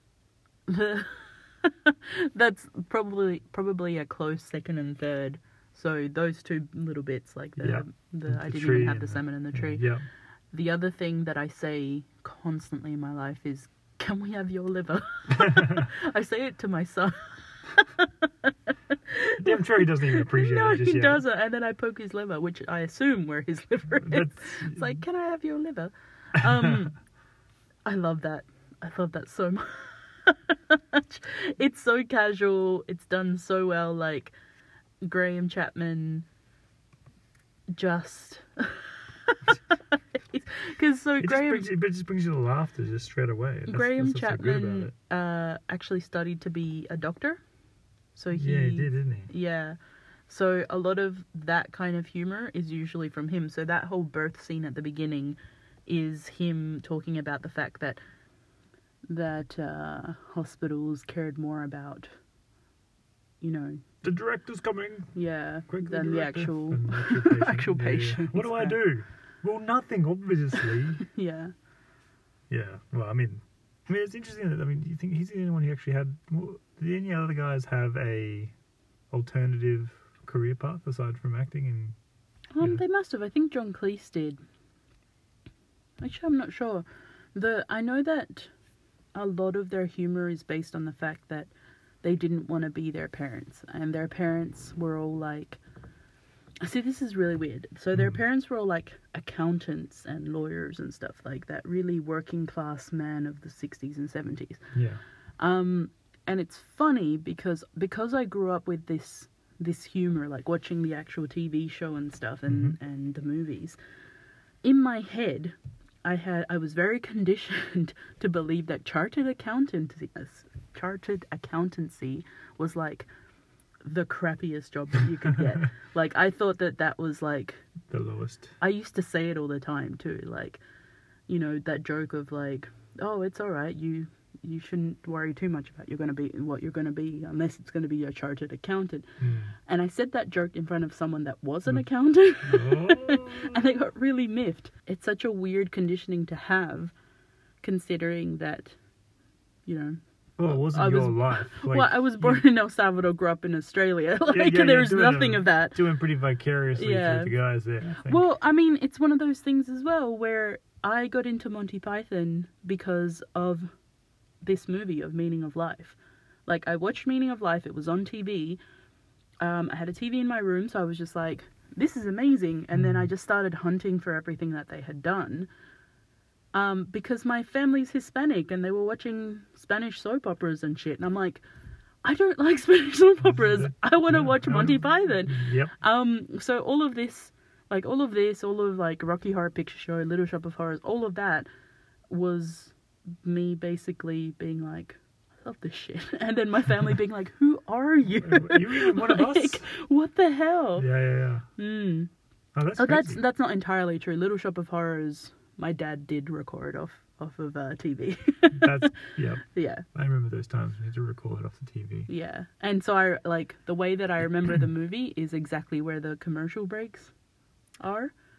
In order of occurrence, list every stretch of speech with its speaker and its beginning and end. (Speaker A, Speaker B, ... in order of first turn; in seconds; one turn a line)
Speaker A: 0.7-9.9
Speaker B: 7.6-10.1
Speaker A: 10.5-27.0
Speaker B: 15.4-15.9
Speaker B: 19.4-21.2
Speaker B: 24.0-25.0
Speaker B: 26.4-26.8
Speaker A: 27.9-34.4
Speaker A: 35.0-36.2
Speaker A: 37.7-41.7
Speaker B: 41.2-44.9
Speaker A: 43.7-47.4
Speaker A: 48.1-49.8
Speaker B: 48.3-49.3
Speaker A: 50.3-58.0
Speaker A: 59.1-62.1
Speaker A: 63.4-63.8
Speaker B: 64.0-65.2
Speaker A: 65.2-68.8
Speaker B: 65.7-71.0
Speaker A: 71.0-71.5
Speaker B: 72.5-78.5
Speaker B: 79.1-82.0
Speaker A: 82.5-84.4
Speaker A: 86.0-88.5
Speaker A: 89.2-91.5
Speaker A: 92.0-95.6
Speaker A: 96.6-104.7
Speaker B: 98.0-98.2
Speaker B: 104.7-105.0
Speaker A: 105.4-113.8
Speaker B: 112.5-112.8
Speaker A: 114.6-123.1
Speaker A: 123.8-127.7
Speaker B: 127.9-128.5
Speaker A: 128.6-130.6
Speaker A: 131.3-139.1
Speaker B: 139.2-139.5
Speaker A: 139.7-146.9
Speaker B: 142.4-143.6
Speaker A: 147.6-148.8
Speaker A: 149.7-155.8
Speaker B: 150.4-152.4
Speaker B: 154.3-158.2
Speaker A: 156.8-157.3
Speaker A: 157.9-163.7
Speaker A: 164.4-168.6
Speaker A: 169.4-175.5
Speaker B: 172.7-173.1
Speaker A: 176.5-181.4
Speaker A: 182.0-191.5
Speaker B: 183.2-185.7
Speaker A: 192.1-200.9
Speaker B: 198.2-199.7
Speaker B: 200.8-201.5
Speaker A: 201.6-202.1
Speaker B: 202.6-203.2
Speaker A: 202.8-208.9
Speaker B: 208.6-212.1
Speaker A: 209.4-209.8
Speaker A: 212.1-217.1
Speaker A: 217.8-218.1